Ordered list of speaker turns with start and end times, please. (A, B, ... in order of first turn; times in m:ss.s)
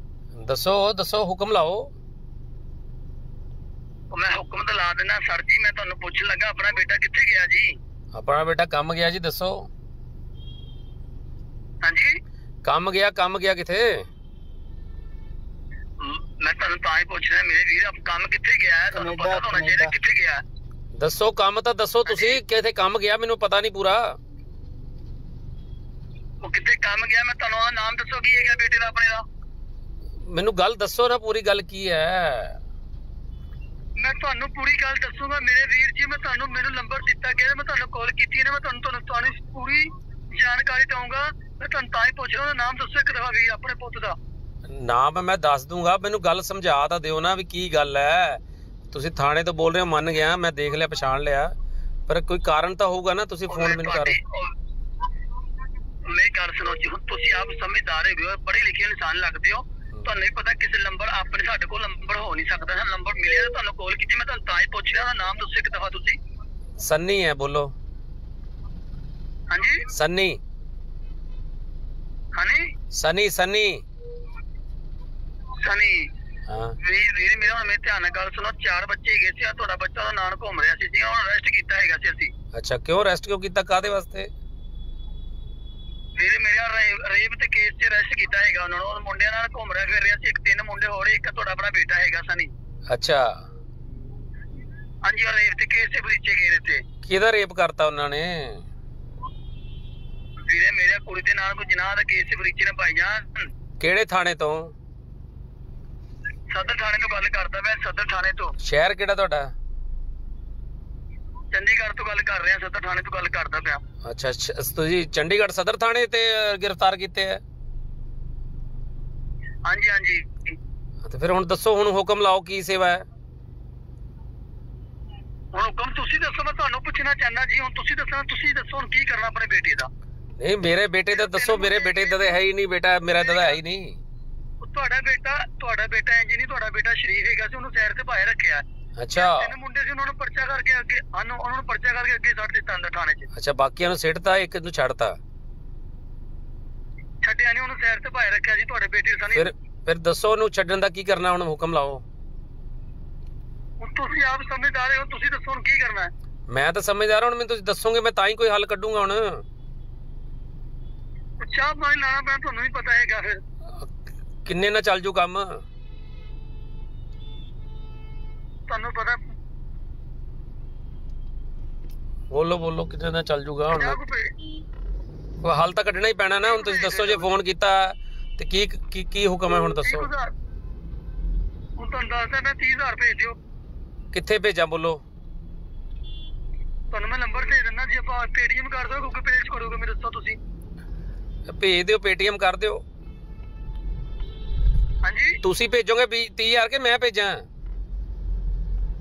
0:00.4-0:01.9 A
0:04.1-0:07.8 B
0:08.1-0:09.7 A
0:11.8-0:12.2 B
0:12.6-0:14.0 A
0:16.0-0:20.4 B
0:21.0-0:24.2 A
0:22.1-0:22.4 B
0:26.4-0:29.2 B
0:30.3-0:32.6 A
0:34.0-0:44.2 B
0:44.7-0:48.4 A
0:48.9-0:51.5 A
0:52.1-0:54.2 A
0:53.5-0:54.5 B
0:56.1-1:06.2 B
1:06.8-1:07.7 A
1:09.5-1:09.9 B
1:09.9-1:10.4 A
1:12.3-1:12.7 B
1:12.9-1:13.8 A
1:15.6-1:16.1 B
1:16.5-1:16.8 A
1:16.8-1:22.3 B
1:22.5-1:24.3 A
1:26.2-1:32.5 B
1:32.9-1:33.4 A
1:35.0-1:36.8 B
1:37.0-1:38.6 A
1:40.4-1:43.5 B
1:43.8-1:44.7 A
1:46.5-1:48.6 B
1:48.6-1:49.5 A
1:51.5-1:53.8 B
1:54.0-1:57.4 A
1:59.6-2:00.6 B
2:01.0-2:03.0 A
2:05.5-2:09.9 B
2:10.4-2:14.0 A
2:11.1-2:12.4 B
2:13.2-2:13.6 B
2:14.6-2:18.6 B
2:19.0-2:19.5 A
2:19.1-2:23.3 B
2:23.3-2:25.2 A
2:27.2-2:29.5 B
2:29.3-2:32.0 A
2:33.8-2:36.1 B
2:36.5-2:39.4 A
2:41.4-2:43.4 B
2:44.4-2:45.6 A
2:48.7-2:49.2 B
2:52.3-2:54.0 A
2:53.7-2:54.3 B
2:55.4-3:00.1 A
2:56.4-2:57.2 B
2:59.6-3:00.3 B
3:01.8-3:03.4 B
3:04.1-3:05.0 A
3:06.9-3:10.4 B
3:11.5-3:12.8 A
3:15.0-3:15.4 B
3:15.4-3:17.4 A